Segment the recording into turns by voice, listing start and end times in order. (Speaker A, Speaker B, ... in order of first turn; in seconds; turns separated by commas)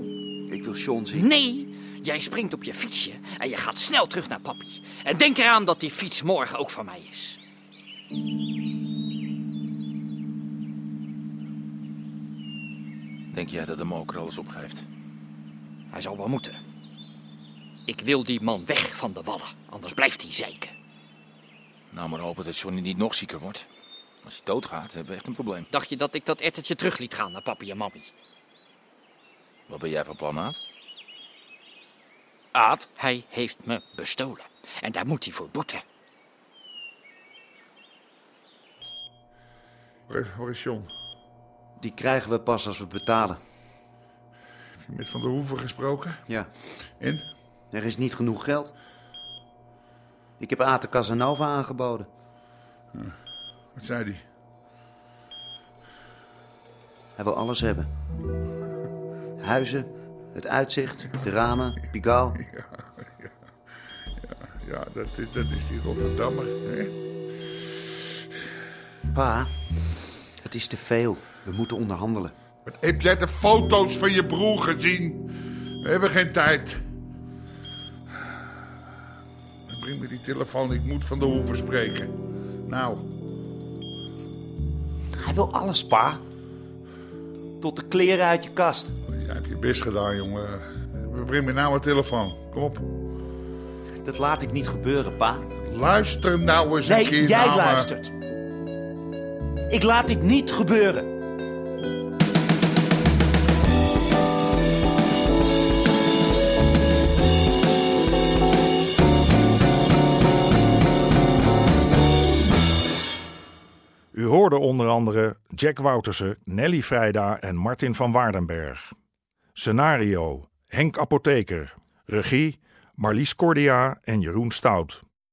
Speaker A: 0.5-1.3, Speaker B: 1.2-7.4, Speaker C: 13.3-14.8, Speaker B: 15.9-16.6, Speaker B: 17.9-20.7, Speaker C: 21.9-23.7, Speaker C: 24.2-25.7, Speaker B: 25.7-28.1, Speaker C: 29.7-30.6, Speaker B: 32.5-35.8, Speaker D: 40.1-40.9, Speaker A: 41.8-43.4, Speaker D: 44.9-46.2, Speaker D: 47.0-47.3, Speaker A: 47.7-48.7, Speaker A: 50.4-52.1, Speaker D: 53.8-54.2, Speaker A: 57.2-57.9, Speaker A: 59.4-62.4, Speaker D: 62.4-62.6, Speaker D: 64.2-66.9, Speaker A: 69.1-69.5, Speaker A: 70.4-72.3, Speaker D: 72.6-75.3, Speaker D: 75.8-76.8, Speaker D: 79.7-82.1, Speaker D: 82.7-83.1, Speaker A: 85.1-86.2, Speaker A: 87.6-88.9, Speaker D: 89.1-92.8, Speaker A: 94.0-95.5, Speaker D: 95.6-97.9, Speaker A: 96.8-98.1, Speaker A: 99.7-101.1, Speaker E: 114.1-118.9, Speaker E: 119.6-125.0